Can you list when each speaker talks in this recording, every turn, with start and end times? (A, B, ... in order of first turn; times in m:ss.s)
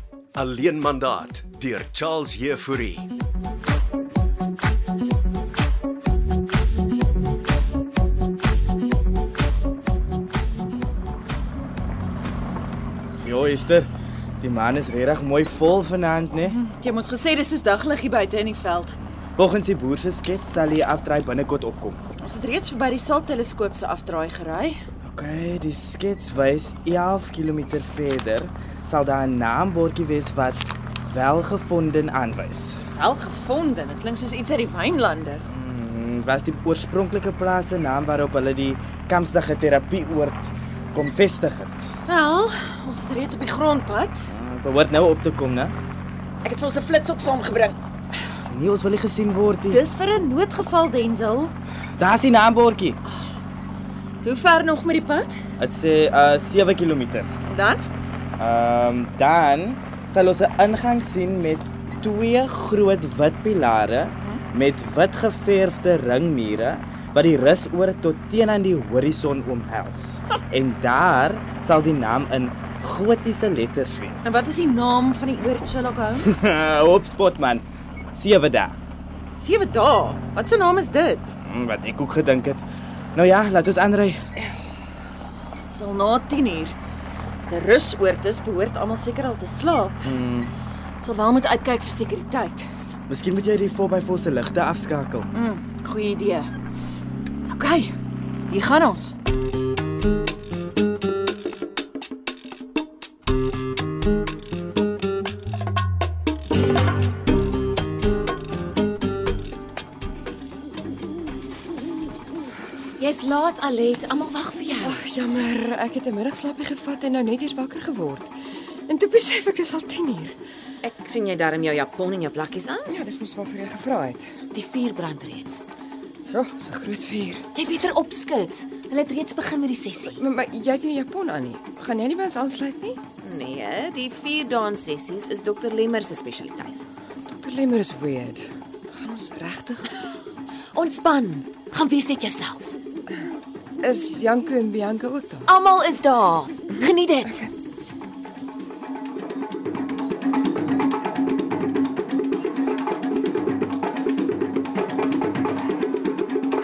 0:00.3-0:03.1 A
0:13.2-0:13.9 B
0:14.4-0:16.6 B
0:16.5-0:19.0 C
0:19.4-0:22.0 B
0:22.2-0:24.8 C
0:25.0-0:32.8 B
0:32.9-0:35.4 C
0:35.5-0:41.8 B
0:42.0-0:44.3 C
0:44.3-0:45.7 B
0:46.4-0:47.8 C
0:48.5-0:49.8 B
0:49.7-0:51.5 C
0:52.0-0:53.0 B
0:53.0-0:53.4 C
0:54.2-0:55.4 C
0:55.6-0:57.3 B
0:57.4-0:57.8 C
0:58.4-1:14.4 B
1:14.2-1:16.4 C
1:16.2-1:18.8 B
1:19.4-1:21.3 C
1:21.4-1:24.2 B
1:25.7-1:26.8 C
1:27.4-1:30.0 C
1:30.0-1:30.5 B
1:31.0-1:32.7 C
1:33.1-1:35.3 B
1:35.3-1:36.5 C
1:37.5-1:37.9 C
1:38.5-1:39.1 C
1:53.0-1:55.0 D
1:54.8-1:58.3 E
1:58.9-2:00.4 E
2:00.8-2:02.9 D
2:02.9-2:04.4 E
2:04.5-2:05.6 D
2:06.3-2:07.5 E
2:07.5-2:10.2 D
2:10.1-2:13.0 E
2:13.2-2:16.9 D
2:17.2-2:19.9 E
2:20.7-2:22.7 D
2:23.8-2:25.5 E
2:25.4-2:27.4 D